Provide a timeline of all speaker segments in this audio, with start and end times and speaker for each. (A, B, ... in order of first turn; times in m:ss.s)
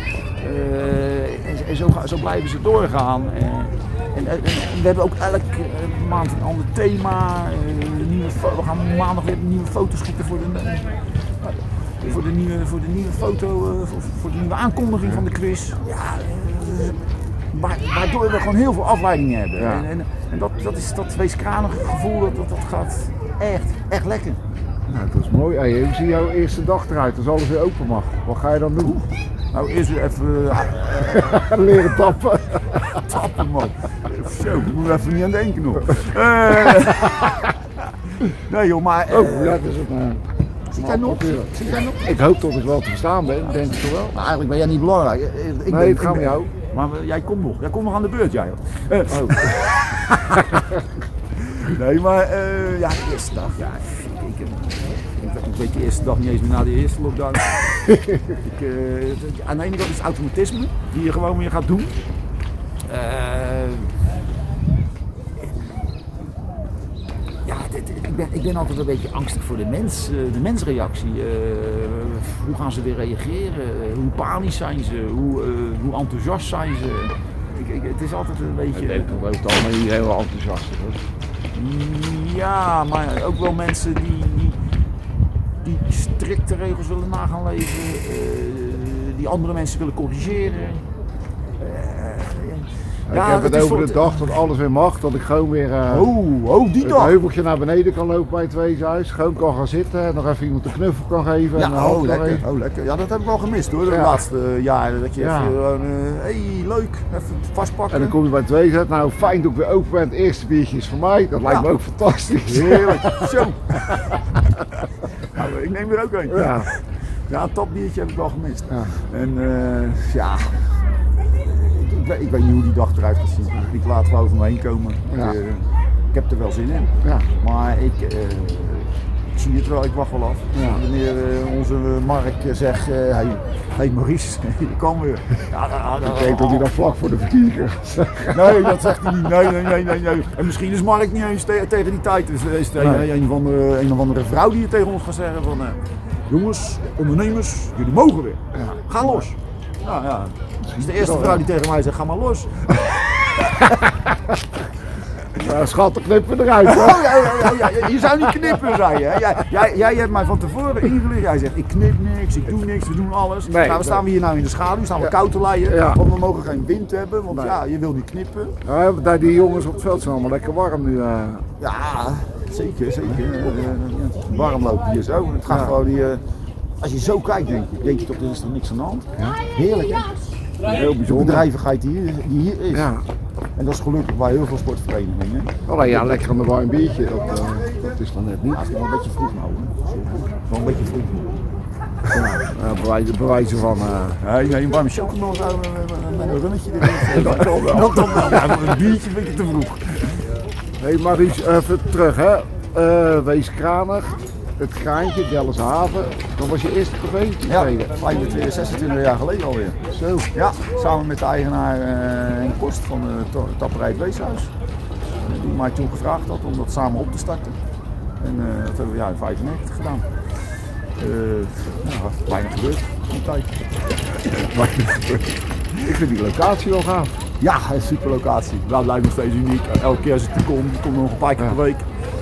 0:00.4-0:24.4 A
0:19.6-0:19.9 B
0:24.9-0:29.0 B
0:29.5-0:31.5 A
0:31.0-0:33.0 B
0:32.9-0:39.6 A
0:36.6-0:37.3 B
0:39.1-0:40.2 B
0:40.7-0:42.1 A
0:40.8-0:44.2 B
0:44.1-1:02.0 A
0:45.7-0:46.5 B
0:49.1-0:49.7 B
1:02.9-1:04.0 A
1:07.4-1:19.2 A
1:18.7-1:21.0 B
1:21.5-1:24.6 A
1:25.6-1:30.8 A
1:31.6-1:34.4 A
1:33.1-1:36.1 B
1:35.9-1:37.2 A
1:36.8-1:42.4 B
1:41.5-1:48.2 A
1:43.9-1:44.2 B
1:45.2-1:45.6 B
1:47.9-1:54.2 B
1:52.4-2:16.7 A
1:56.3-1:56.7 B
1:58.7-1:59.0 B
2:05.1-2:05.4 B
2:07.0-2:07.3 B
2:10.5-2:10.8 B
2:16.0-2:19.1 B
2:18.3-2:33.9 A
2:22.8-2:23.1 B
2:28.5-2:29.3 B
2:30.6-2:31.4 B
2:35.4-2:39.4 B
2:36.6-2:48.6 A
2:43.4-2:44.0 B
2:45.7-2:46.0 B
2:47.3-2:47.6 B
2:48.6-2:51.4 B
2:51.6-2:56.2 A
2:55.5-2:55.8 B
2:56.8-3:00.1 A
3:00.6-3:01.5 B
3:00.9-3:02.9 A
3:02.7-3:03.0 B
3:03.6-3:06.1 A
3:05.7-3:08.6 B
3:08.5-3:11.4 A
3:12.1-3:14.2 B
3:14.2-3:20.2 A
3:16.8-3:18.7 B
3:20.8-3:28.2 B
3:27.4-3:29.8 A
3:29.9-3:30.3 B
3:30.3-3:34.5 A
3:35.2-3:37.6 A
3:38.2-3:40.1 A
3:41.0-3:45.9 A
3:45.8-3:47.1 B
3:47.4-3:51.9 A